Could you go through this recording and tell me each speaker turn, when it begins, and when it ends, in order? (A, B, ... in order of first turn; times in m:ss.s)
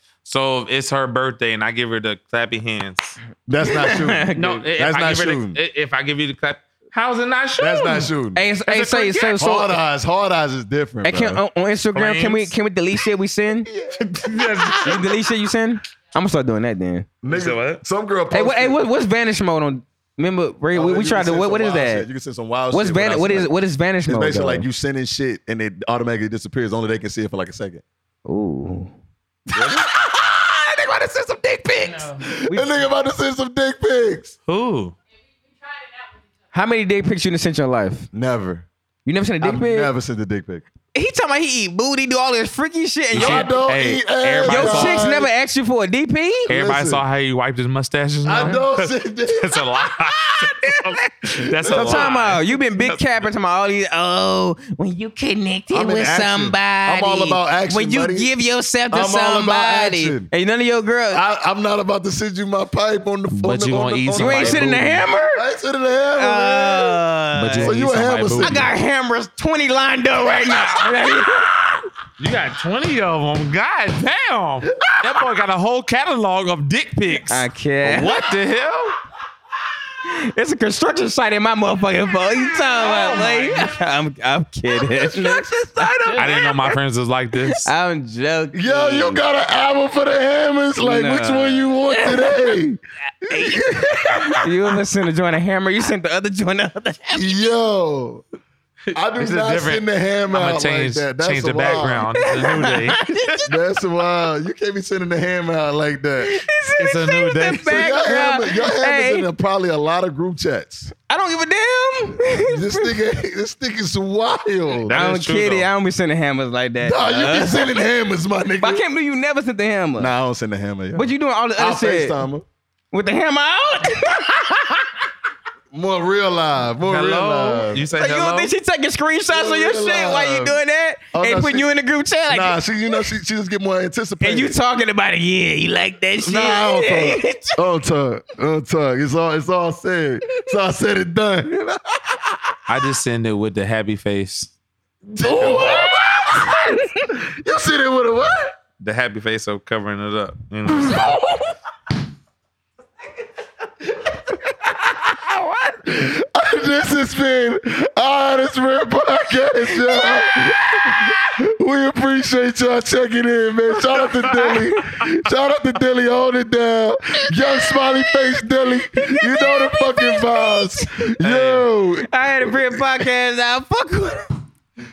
0:00.2-0:03.2 A
0:03.5-0:05.6 B
0:03.6-0:04.6 C
0:04.4-0:08.1 A
0:07.6-0:08.4 B
0:08.3-0:09.7 C
0:08.7-0:09.4 A
0:09.4-0:11.4 B
0:11.0-0:13.7 C
0:11.9-0:12.5 A
0:13.7-0:15.0 B
0:14.0-0:15.1 A
0:14.8-0:17.1 C
0:17.2-0:18.8 B
0:17.3-0:17.8 A
0:18.3-0:22.1 C
0:20.7-0:23.5 B
0:22.7-0:24.6 C
0:24.0-0:27.8 B
0:28.2-0:28.9 C
0:29.5-0:30.2 B
0:29.6-0:32.8 C
0:32.1-0:34.3 B
0:34.4-0:35.0 A
0:36.5-0:38.1 C
0:38.1-0:38.6 B
0:39.0-0:39.9 C
0:39.4-0:40.6 B
0:40.9-0:43.5 C
0:43.1-0:45.0 A
0:43.1-0:45.3 B
0:44.4-0:46.5 C
0:46.5-0:47.0 B
0:46.5-0:53.2 A
0:48.2-0:52.1 B
0:51.6-1:01.2 C
0:55.7-0:58.3 B
0:58.9-1:00.3 B
1:01.1-1:07.0 B
1:03.3-1:05.0 A
1:04.1-1:05.4 C
1:06.1-1:07.8 C
1:07.4-1:08.7 A
1:07.6-1:08.7 B
1:08.4-1:11.6 C
1:12.2-1:19.0 A
1:14.8-1:15.2 B
1:17.3-1:18.1 C
1:20.0-1:26.4 C
1:22.8-1:23.7 A
1:24.7-1:26.7 B
1:26.2-1:27.7 A
1:27.6-1:29.2 C
1:28.5-1:34.5 B
1:30.8-1:32.5 C
1:33.3-1:37.3 C
1:37.1-1:38.2 B
1:38.9-1:43.2 A
1:38.9-1:42.1 B
1:42.2-1:43.5 C
1:43.4-1:46.4 B
1:46.2-1:49.3 C
1:46.8-1:47.9 A
1:47.7-1:50.9 B
1:51.0-1:52.9 C
1:52.4-1:54.9 B
1:54.8-1:55.7 A
1:54.9-1:57.7 C
1:56.8-1:58.8 B
1:58.6-2:00.1 C
2:00.0-2:02.4 B
2:00.9-2:02.2 C
2:02.9-2:04.9 C
2:05.7-2:07.9 B
2:06.8-2:08.5 A
2:07.9-2:12.6 C
2:09.3-2:10.6 B
2:11.1-2:11.7 B
2:12.3-2:14.5 B
2:14.2-2:17.6 C
2:16.2-2:22.5 B
2:22.7-2:24.5 A
2:25.1-2:28.5 B
2:25.3-2:25.8 A
2:26.6-2:27.1 C
2:28.8-2:31.2 A
2:30.8-2:31.5 B
2:34.0-2:52.8 B
2:39.9-2:40.4 C
2:44.0-2:44.7 C
2:47.5-2:48.0 C
2:48.9-2:50.9 C
2:51.2-2:51.7 A
2:52.0-2:54.3 C